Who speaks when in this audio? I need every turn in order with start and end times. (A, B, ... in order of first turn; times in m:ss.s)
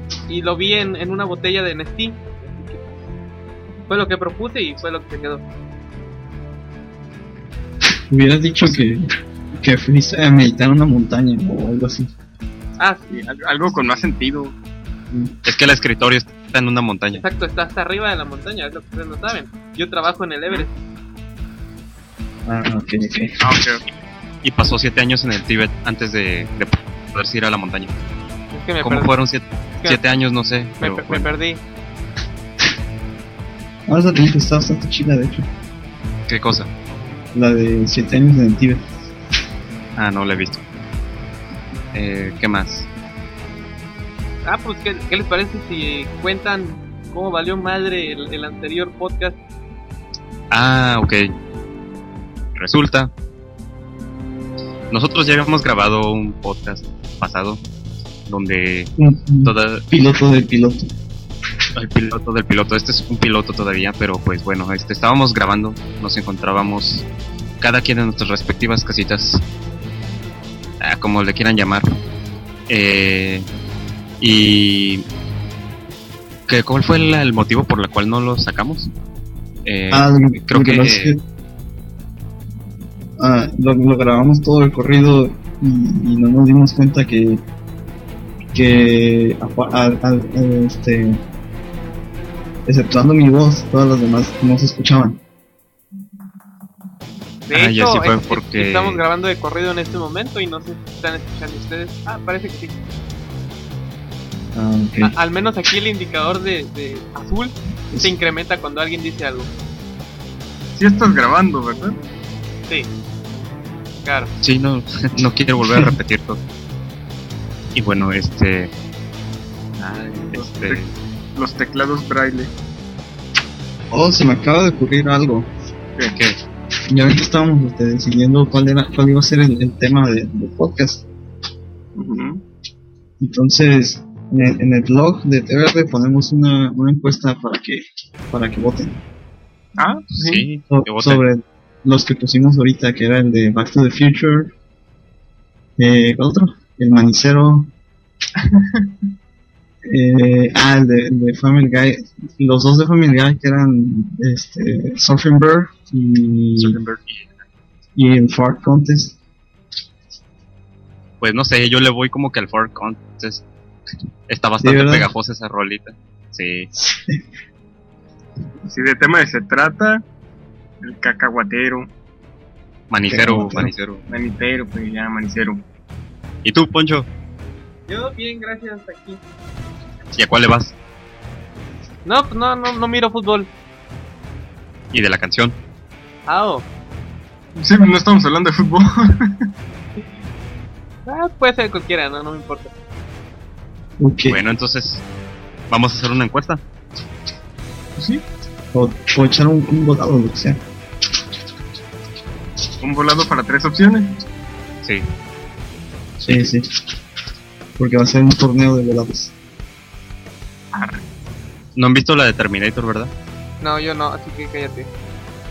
0:00.3-0:02.8 A
0:03.9-0:05.4 A
0:08.1-0:12.1 B
0:12.8-0:13.1 A
0:13.1-0:14.6 C
0:15.4-0:17.2 D
0:17.1-0:20.7 A
0:22.4-0:23.4 B
0:23.4-0:23.8 C
0:24.4-0:27.9 D
0:28.5-0:29.1 A
0:28.8-0:31.3 D
0:30.8-0:31.6 A
0:33.9-0:35.5 B
0:36.3-0:36.7 D
0:37.3-0:38.8 B
0:40.0-0:40.6 D
0:41.9-0:42.9 D
0:44.4-0:49.4 A
0:50.5-0:51.3 D
0:52.6-0:53.1 D
0:54.9-0:57.6 D
0:58.2-0:58.9 D
0:59.0-1:00.9 B
0:59.4-0:59.8 D
1:01.8-1:07.1 D
1:07.6-1:09.4 D
1:10.8-1:11.8 D
1:12.7-1:13.5 D
1:14.2-1:15.1 D
1:16.5-1:18.9 D
1:19.6-1:21.1 D
1:19.9-1:21.2 B
1:23.2-1:27.4 B
1:28.5-1:31.2 B
1:32.7-1:35.2 B
1:37.5-1:42.8 A
1:37.5-1:39.0 D
1:44.5-1:45.1 B
1:45.0-1:49.5 A
1:50.8-1:52.0 C
1:54.0-1:54.3 A
1:54.4-1:56.4 D
1:57.8-1:58.7 D
1:59.8-2:00.9 D
2:00.3-2:00.8 C
2:01.4-2:02.5 C
2:03.9-2:05.5 B
2:06.9-2:11.0 B
2:12.0-2:12.4 C
2:13.2-2:19.0 B
2:19.8-2:20.4 C
2:20.1-2:21.2 D
2:20.7-2:24.5 B
2:25.8-2:27.7 B
2:28.4-2:28.9 C
2:29.8-2:36.8 B
2:36.6-2:37.3 D
2:38.0-2:39.2 B
2:41.2-2:43.4 D
2:44.3-2:46.7 D
2:44.6-2:45.1 B
2:46.7-2:47.2 B
2:48.7-2:50.0 C
2:50.8-2:51.9 C
2:52.9-2:54.0 D
2:53.1-2:53.7 B
2:54.1-2:55.6 C
2:56.4-2:57.1 D
2:57.9-2:59.2 A
3:00.1-3:00.7 D
3:02.0-3:03.5 A
3:04.9-3:05.6 D
3:06.3-3:06.6 A
3:07.6-3:09.3 C
3:11.0-3:12.7 A
3:14.0-3:14.4 B
3:14.3-3:15.0 D
3:15.7-3:16.6 D
3:18.0-3:18.2 C
3:18.7-3:20.6 B
3:22.8-3:24.1 C
3:26.2-3:26.7 B
3:27.8-3:29.3 B
3:30.7-3:31.0 C
3:31.8-3:33.1 D
3:33.6-3:34.9 A